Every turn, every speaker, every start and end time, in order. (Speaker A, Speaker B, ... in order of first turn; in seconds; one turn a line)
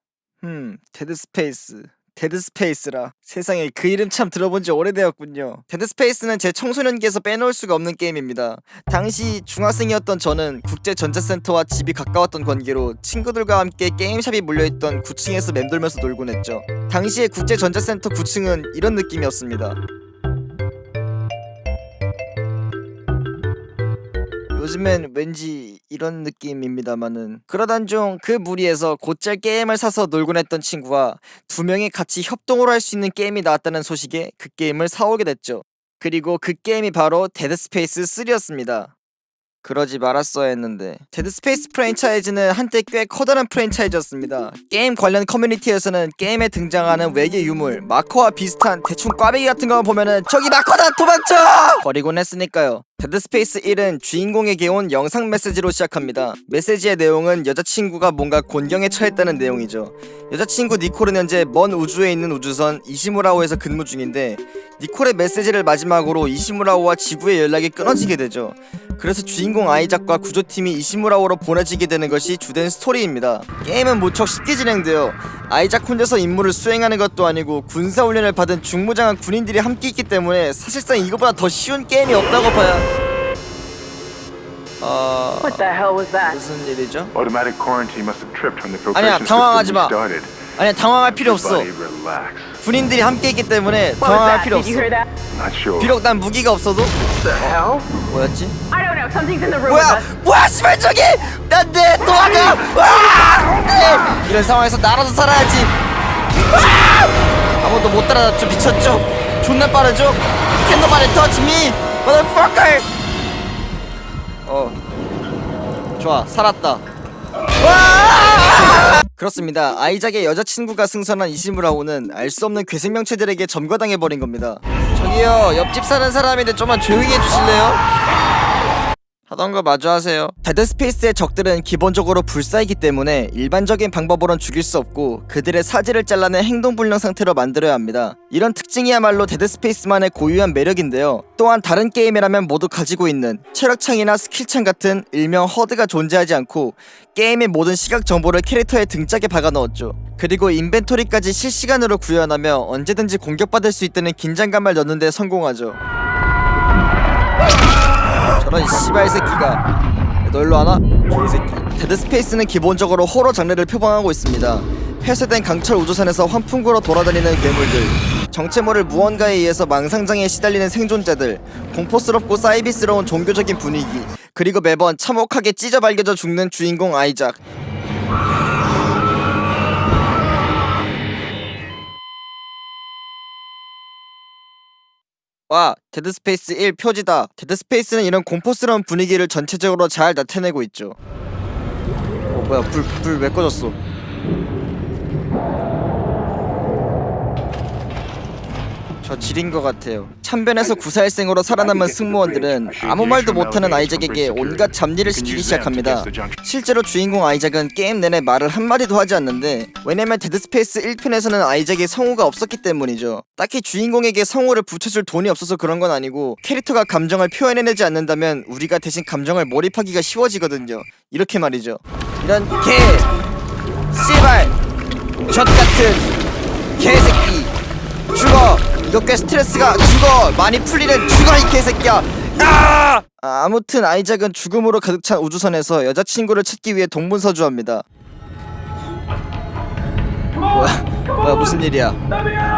Speaker A: 0.4-19.8
Speaker A: 24.5-38.9
Speaker A: 39.6-82.9
Speaker A: 84.8-85.6
Speaker B: 85.4-86.4
Speaker A: 86.2-87.1
Speaker C: 87.1-90.5
Speaker A: 88.9-90.0
Speaker A: 90.5-91.7
Speaker C: 91.1-92.6
Speaker A: 92.6-94.9
Speaker B: 94.0-95.1
Speaker C: 95.3-96.0
Speaker A: 95.8-96.9
Speaker B: 97.2-97.9
Speaker A: 98.1-98.5
Speaker B: 98.7-100.1
Speaker A: 99.6-105.7
Speaker A: 107.6-112.8
Speaker A: 114.5-114.8
Speaker A: 116.0-116.8
Speaker A: 117.6-127.8
Speaker A: 129.3-155.8
Speaker A: 158.4-159.6
Speaker A: 160.2-177.4
Speaker A: 185.5-191.0
Speaker A: 192.3-193.8
Speaker A: 199.0-223.1
Speaker C: 202.3-206.4
Speaker A: 223.9-224.5
Speaker A: 225.3-226.1
Speaker A: 226.8-227.5
Speaker A: 228.1-237.8
Speaker A: 240.5-242.0